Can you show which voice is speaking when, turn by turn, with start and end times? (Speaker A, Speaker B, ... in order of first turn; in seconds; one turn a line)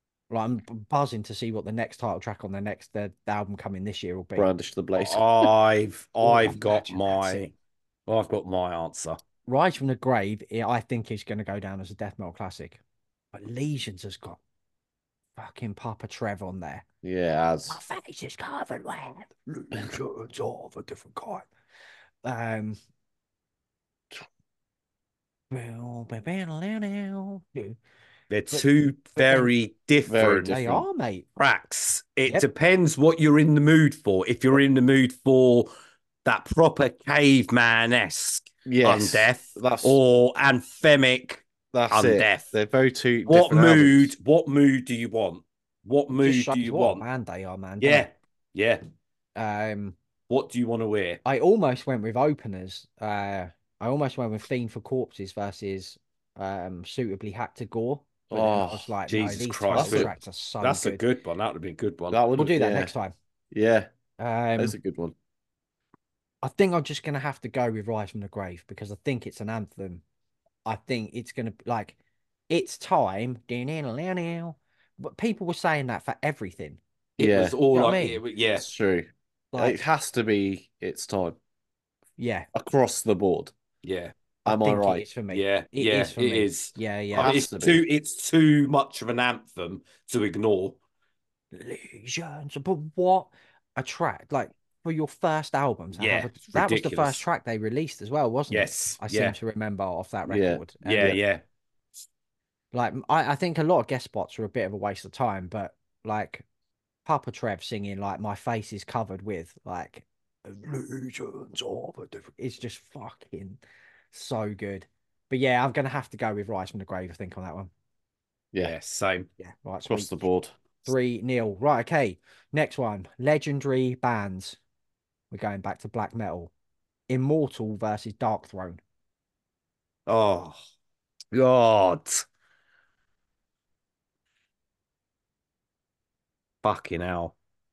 Speaker A: 0.3-4.5
Speaker B: 4.3-5.2
Speaker C: 5.0-7.5
Speaker A: 6.2-7.5
Speaker C: 8.1-9.2
Speaker A: 9.5-12.8
Speaker A: 13.3-14.4
Speaker A: 15.4-16.8
Speaker B: 17.0-17.8
Speaker A: 17.7-21.5
Speaker A: 22.2-22.8
Speaker A: 25.5-27.8
Speaker C: 28.3-30.6
Speaker A: 28.5-29.5
Speaker B: 30.1-30.8
Speaker A: 30.4-31.2
Speaker C: 31.4-35.7
Speaker C: 36.2-42.5
Speaker B: 38.6-40.0
Speaker B: 41.7-44.1
Speaker C: 43.2-47.0
Speaker A: 46.1-48.1
Speaker C: 47.8-48.8
Speaker A: 49.4-50.0
Speaker C: 50.3-51.2
Speaker A: 51.2-61.0
Speaker B: 58.3-58.9
Speaker C: 59.1-62.2
Speaker B: 59.7-60.1
Speaker B: 62.1-62.9
Speaker A: 62.4-63.1
Speaker B: 63.5-63.9
Speaker A: 64.2-64.8
Speaker B: 64.6-65.1
Speaker A: 66.4-70.0
Speaker A: 70.7-72.0
Speaker A: 72.5-76.8
Speaker C: 77.2-78.6
Speaker B: 77.2-77.6
Speaker A: 77.7-78.2
Speaker B: 78.5-81.4
Speaker A: 79.5-79.8
Speaker A: 82.2-82.5
Speaker B: 82.5-83.5
Speaker C: 83.8-84.1
Speaker B: 84.5-85.1
Speaker A: 84.5-87.3
Speaker C: 85.3-90.8
Speaker B: 87.2-87.8
Speaker A: 91.5-101.2
Speaker C: 96.0-97.2
Speaker C: 98.5-99.3
Speaker B: 100.3-101.2
Speaker C: 100.8-101.4
Speaker A: 102.7-106.4
Speaker A: 107.0-113.6
Speaker A: 114.1-117.7
Speaker C: 118.6-119.3
Speaker A: 119.4-120.1
Speaker B: 119.9-120.5
Speaker A: 120.8-124.6
Speaker A: 125.3-126.5
Speaker A: 127.1-128.8
Speaker C: 130.1-130.6
Speaker C: 131.3-132.2
Speaker C: 136.6-137.3